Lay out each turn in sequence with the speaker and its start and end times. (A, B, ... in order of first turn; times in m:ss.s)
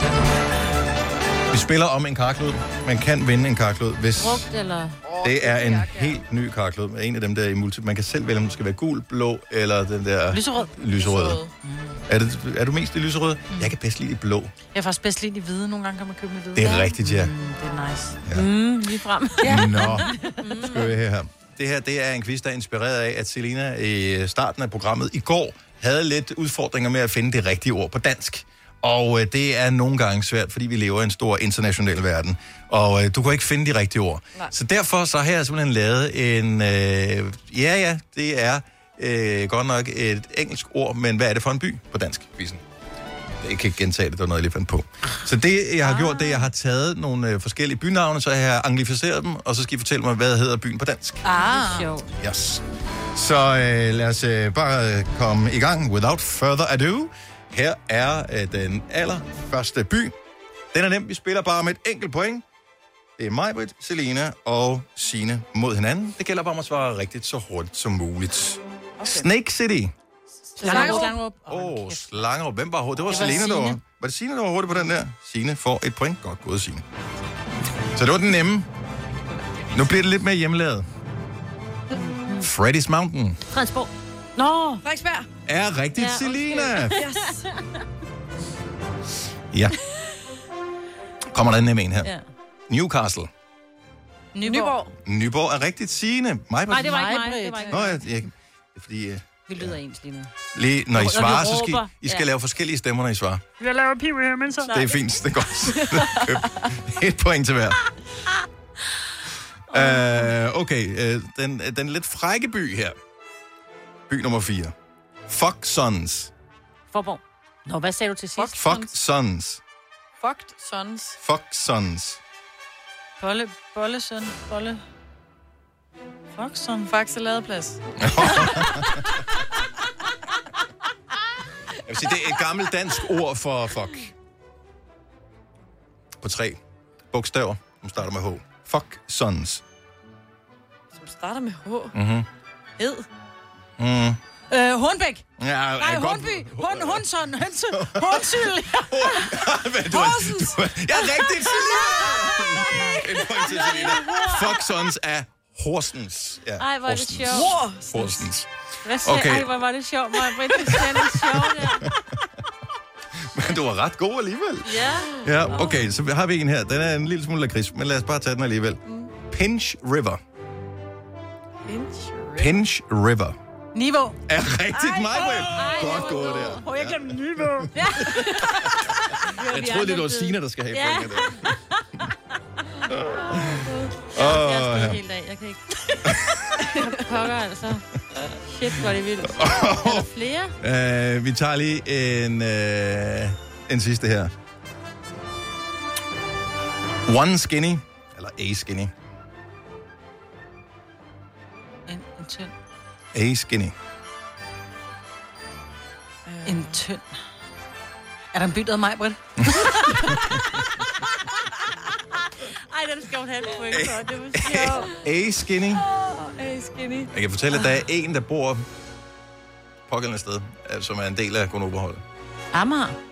0:01.5-0:04.5 A
0:04.2-0:05.0 B
0:05.0-0:06.2 C
0:05.2-0:11.4 A
0:10.3-0:10.7 D
0:11.0-0:11.5 C
0:11.6-0:12.0 D
0:12.1-0:14.5 A
0:14.7-0:18.2 D
0:16.5-0:17.3 A
0:18.3-0:19.9 B
0:19.4-0:20.6 D
0:19.4-0:20.1 A
0:20.4-0:20.8 C
0:20.6-0:42.6 A
0:43.4-0:51.2 A
0:45.8-0:46.4 B
0:51.3-0:51.8 D
0:51.3-0:52.1 B
0:52.2-0:52.6 A
0:53.1-1:00.1 A
1:00.7-1:02.4 A
1:03.2-1:09.9 A
1:10.6-1:12.2 D
1:10.6-1:11.2 B
1:10.6-1:11.1 C
1:10.6-1:16.8 A
1:13.1-1:13.7 D
1:13.1-1:13.7 B
1:17.9-1:18.7 A
1:19.7-1:20.8 A
1:21.9-1:22.5 B
1:22.4-1:23.4 A
1:23.5-1:24.8 B
1:24.8-1:25.3 C
1:25.4-1:27.0 A
1:26.0-1:27.1 B
1:27.0-1:27.4 C
1:29.5-1:29.8 A
1:31.3-1:32.1 A
1:32.7-1:33.3 A
1:34.3-1:34.8 D
1:34.4-1:34.9 C
1:35.0-1:37.1 A
1:36.7-1:37.9 B
1:36.8-1:37.8 D
1:37.7-1:39.8 A
1:39.5-1:40.3 B
1:40.5-1:43.4 A
1:40.9-1:42.3 B
1:43.6-1:44.8 D
1:44.7-1:47.8 A
1:49.7-1:53.0 A
1:49.7-1:50.2 B
1:54.1-1:54.7 A
1:55.3-1:56.3 A
1:56.9-1:58.5 B
1:58.4-1:58.9 C
1:58.5-1:59.6 A
2:00.2-2:01.2 C
2:01.2-2:02.2 A
2:03.2-2:04.8 D
2:06.3-2:06.9 D
2:06.9-2:08.7 C
2:08.0-2:09.0 A
2:11.8-2:14.1 A
2:16.2-2:16.6 A
2:17.1-2:19.6 A
2:20.9-2:21.9 C
2:21.9-2:22.2 A
2:22.8-2:23.0 C
2:23.8-2:24.2 A
2:24.5-2:25.2 D
2:25.4-2:27.0 A
2:25.8-2:29.4 D
2:27.7-2:38.5 A
2:30.0-2:30.4 C
2:33.5-2:34.5 B
2:36.6-2:37.5 B
2:37.3-2:38.2 C
2:38.8-2:41.9 B
2:39.0-2:39.5 A
2:40.7-2:41.0 A
2:41.5-2:41.9 A
2:43.3-2:50.2 A
2:44.6-2:45.7 B
2:48.9-2:49.1 C
2:51.6-2:52.6 C
2:52.4-2:53.4 A
2:53.7-2:54.2 D
2:54.3-3:01.6 A
2:54.8-2:57.8 D
2:55.5-2:56.6 B
2:57.7-2:58.5 B
2:59.3-3:01.4 B
3:02.9-3:05.0 A
3:03.3-3:06.1 B
3:06.0-3:06.6 A
3:06.7-3:07.8 B
3:08.4-3:10.5 B
3:09.2-3:10.1 A
3:10.6-3:14.3 A
3:17.0-3:18.9 A
3:21.9-3:22.5 D
3:23.1-3:23.7 A
3:26.2-3:26.8 C
3:26.4-3:27.0 D
3:28.3-3:30.1 D
3:29.4-3:30.4 A
3:32.4-3:34.9 B
3:33.7-3:35.8 A
3:34.4-3:34.9 C
3:35.7-3:37.1 C
3:37.1-3:38.6 A
3:39.9-3:42.0 A
3:42.5-3:43.0 B